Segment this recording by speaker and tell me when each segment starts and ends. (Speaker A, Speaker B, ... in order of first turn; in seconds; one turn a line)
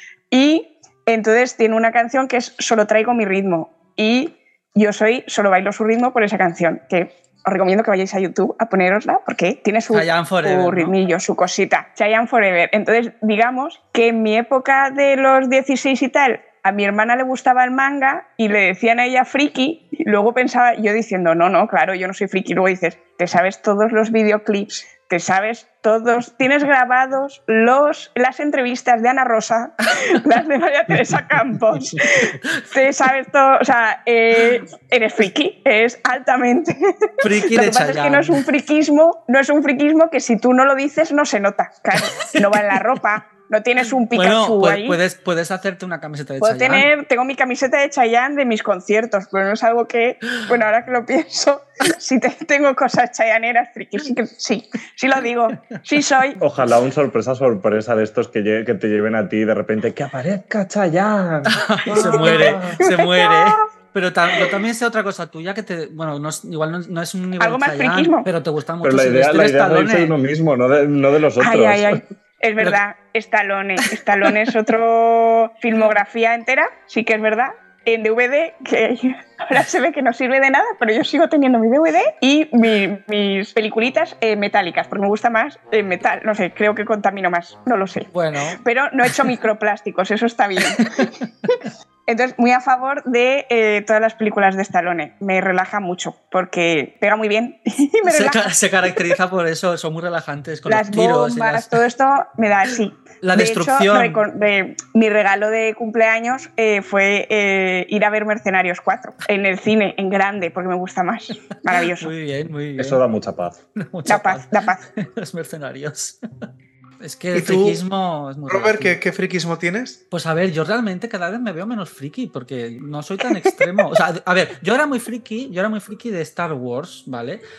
Speaker A: 0.3-45.0
Speaker B: 9.9-10.9
Speaker B: 37.2-38.4
Speaker B: 41.9-43.0
Speaker B: 44.1-46.9
Speaker A: 46.4-56.4
Speaker C: 56.4-62.9
Speaker B: 61.5-70.2
Speaker A: 62.0-63.6
Speaker A: 67.4-68.3
Speaker C: 68.8-72.0
Speaker A: 71.4-91.1
Speaker B: 73.8-74.3
Speaker B: 88.1-89.3
Speaker B: 90.6-91.5
Speaker A: 92.1-98.5
Speaker B: 98.1-101.8
Speaker A: 100.7-112.1
Speaker B: 103.2-104.2
Speaker B: 111.7-113.0
Speaker C: 112.8-113.6
Speaker B: 113.8-116.2
Speaker A: 114.1-114.8
Speaker B: 117.0-119.0
Speaker D: 117.3-117.8
Speaker D: 118.5-120.0
Speaker B: 120.1-127.4